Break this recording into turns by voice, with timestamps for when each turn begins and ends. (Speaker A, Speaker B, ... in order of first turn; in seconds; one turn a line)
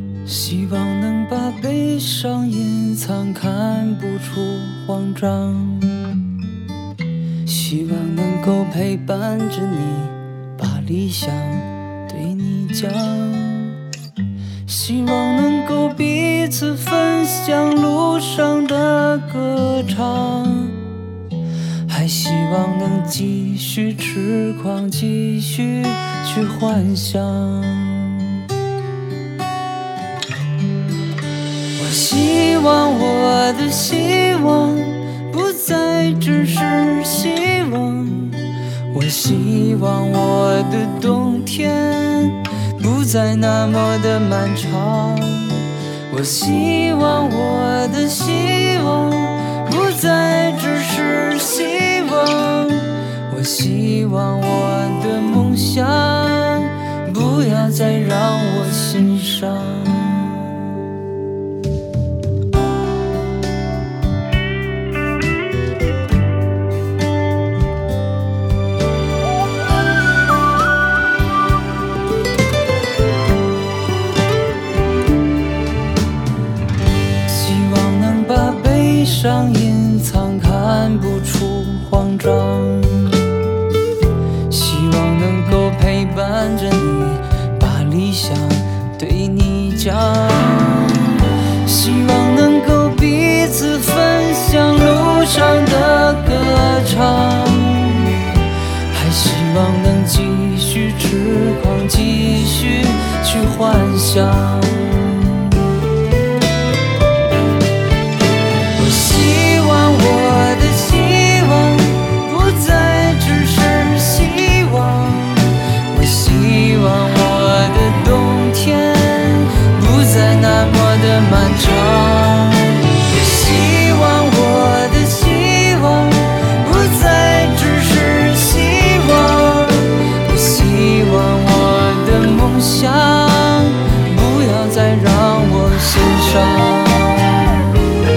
Speaker A: 0.2-6.1
Speaker A: 7.5-13.8
Speaker A: 14.7-20.8
Speaker A: 21.9-28.5
Speaker A: 31.8-60.7
Speaker A: 77.2-83.3
Speaker A: 84.5-98.2
Speaker A: 98.9-105.6
Speaker A: 108.8-137.5